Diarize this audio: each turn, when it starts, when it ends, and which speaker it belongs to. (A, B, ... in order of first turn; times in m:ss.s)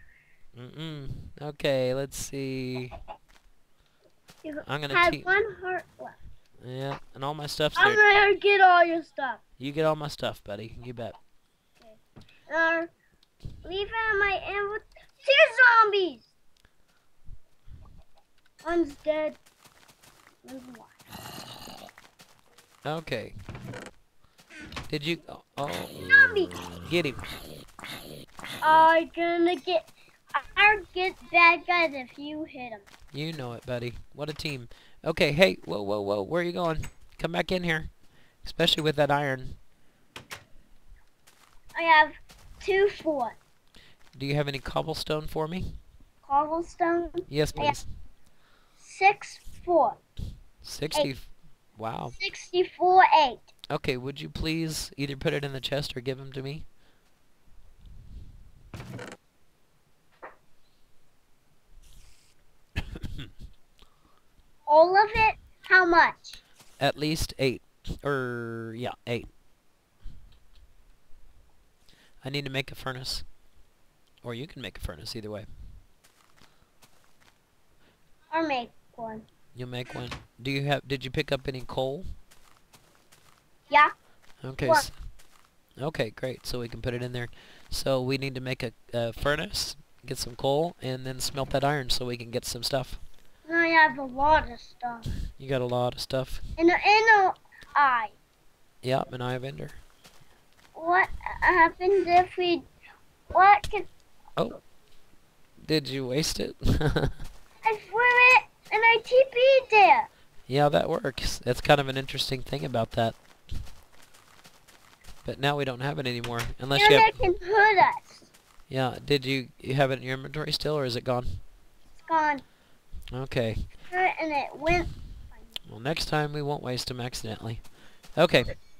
0:00.6-0:03.0 A
0:04.4-0:06.2 B
0:04.6-0:05.3 A
0:06.6-0:08.0 A
0:07.8-0:09.4 B
0:09.6-0:11.2 A
0:11.8-0:12.9 B
0:13.6-0:16.3 B
0:18.6-0:19.4 B
0:20.4-0:20.9 B
0:22.8-0:23.4 A
0:24.9-0:26.1 A
0:26.1-0:26.6 B
0:26.8-0:27.2 A
0:28.6-0:32.8 B
0:33.1-0:37.9 A
0:38.4-0:39.6 A
0:41.8-0:43.4 B
0:44.1-0:45.8 A
0:46.2-0:47.8 B
0:47.3-0:47.9 A
0:48.8-0:50.0 B
0:50.6-0:52.2 A
0:52.2-0:53.5 B
0:53.7-0:56.6 A
1:04.7-1:06.4 B
1:06.8-1:09.3 A
1:12.2-1:13.2 A
1:14.2-1:15.5 A
1:18.3-1:19.3 B
1:19.6-1:22.1 A
1:24.4-1:24.9 A
1:25.8-1:33.0 A
1:33.4-1:35.1 B
1:35.4-1:36.4 A
1:36.6-1:38.1 B
1:38.8-1:39.8 A
1:40.8-1:42.7 B
1:43.3-1:43.9 B
1:45.6-1:47.1 A
1:47.6-1:50.1 B
1:50.5-1:53.2 A
1:55.2-1:57.2 A
1:56.8-1:58.3 B
1:58.7-2:01.4 A
2:02.0-2:02.4 B
2:03.1-2:03.7 A
2:03.9-2:05.4 B
2:05.6-2:08.6 A